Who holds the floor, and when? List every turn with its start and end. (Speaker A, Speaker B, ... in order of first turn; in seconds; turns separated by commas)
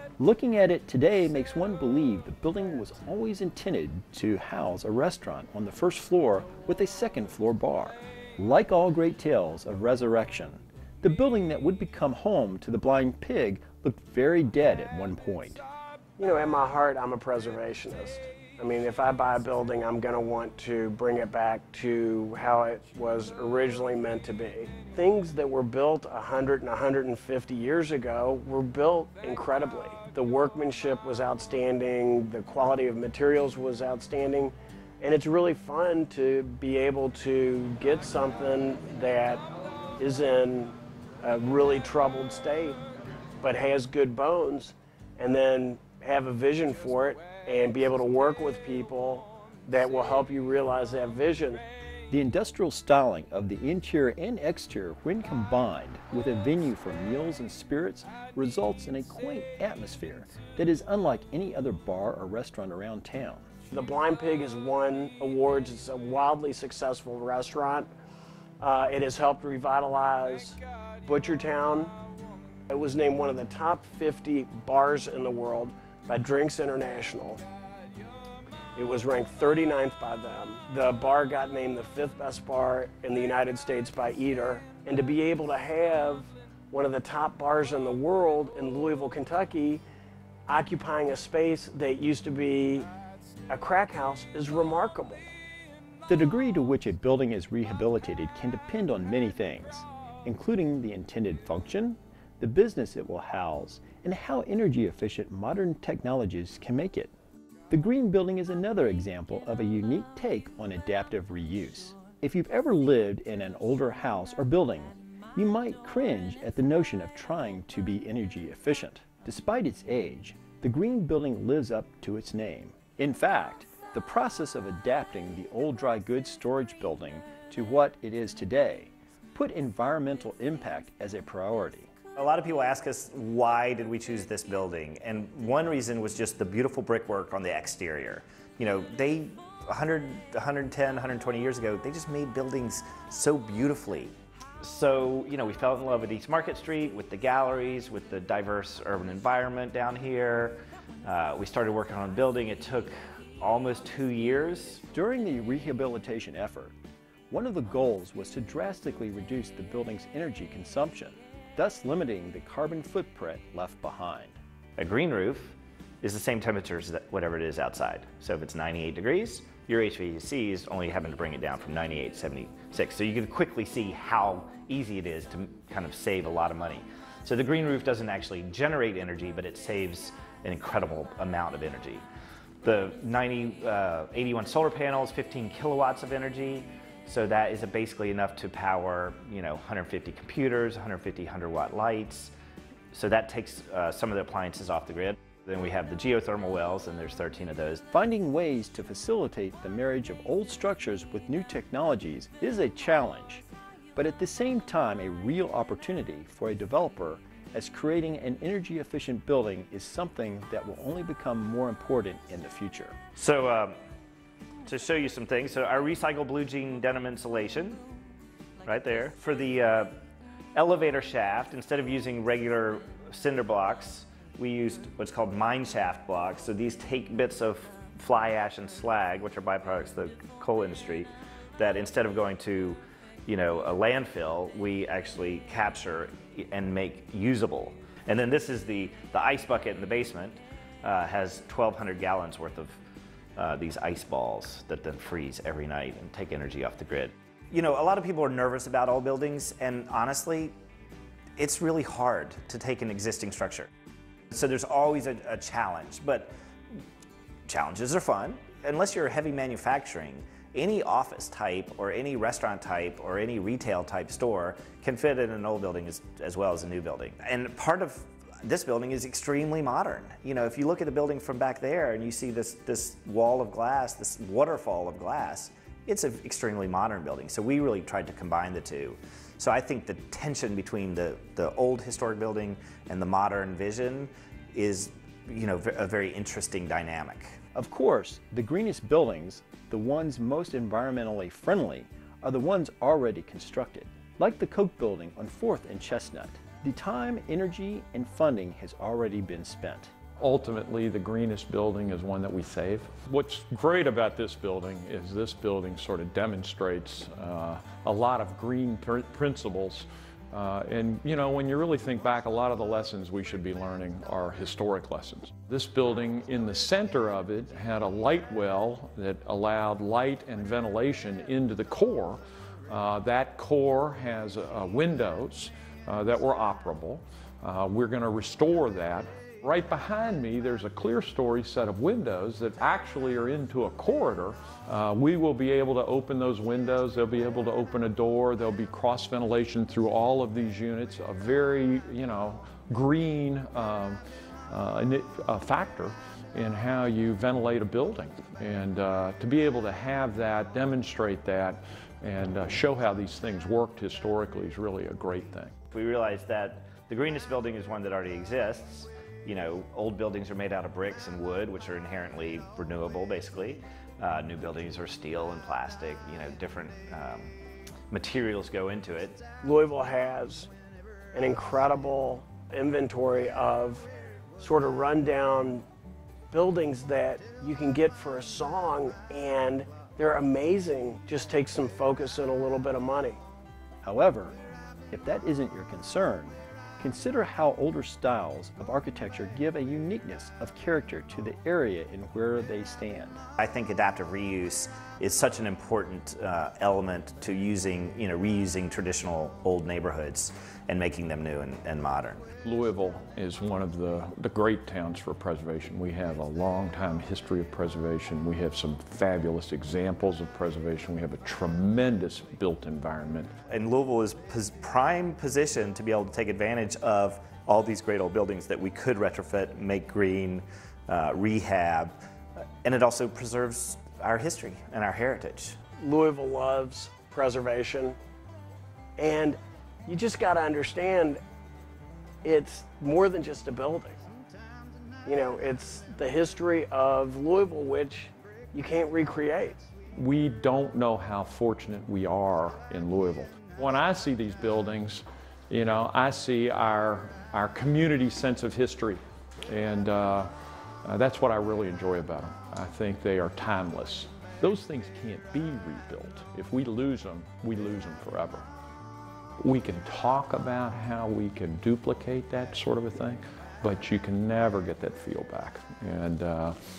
Speaker A: 0.2-15.6, Speaker B: 16.2-39.5, Speaker B: 40.0-42.8, Speaker B: 43.4-51.6, Speaker A: 52.1-63.5, Speaker B: 63.7-67.9, Speaker B: 68.6-71.9, Speaker B: 72.7-77.4, Speaker B: 78.8-89.8, Speaker B: 90.5-92.9, Speaker B: 93.5-95.3, Speaker A: 96.1-107.1, Speaker A: 107.7-131.9, Speaker C: 132.2-154.8, Speaker A: 154.9-156.7, Speaker A: 157.3-164.4, Speaker C: 164.8-182.1, Speaker C: 182.6-192.3, Speaker C: 192.9-197.8, Speaker A: 197.9-203.4, Speaker A: 204.0-213.0, Speaker C: 213.2-213.8, Speaker C: 214.7-217.8, Speaker C: 218.7-219.9, Speaker C: 220.6-242.8, Speaker C: 243.4-250.5, Speaker C: 251.4-253.7, Speaker C: 254.3-256.3, Speaker C: 257.5-287.4, Speaker A: 287.6-299.9, Speaker D: 300.2-355.5, Speaker C: 355.7-367.3, Speaker C: 367.9-369.2, Speaker B: 369.4-370.5, Speaker B: 371.1-375.6, Speaker B: 376.3-383.2, Speaker A: 383.8-384.4, Speaker A: 384.9-393.2, Speaker C: 393.4-402.2, Speaker D: 402.4-413.3, Speaker C: 413.5-425.6, Speaker B: 425.8-428.0, Speaker B: 429.0-431.2, Speaker B: 432.2-434.0, Speaker B: 435.1-439.6, Speaker D: 440.0-450.3, Speaker D: 450.9-458.4, Speaker D: 459.4-466.6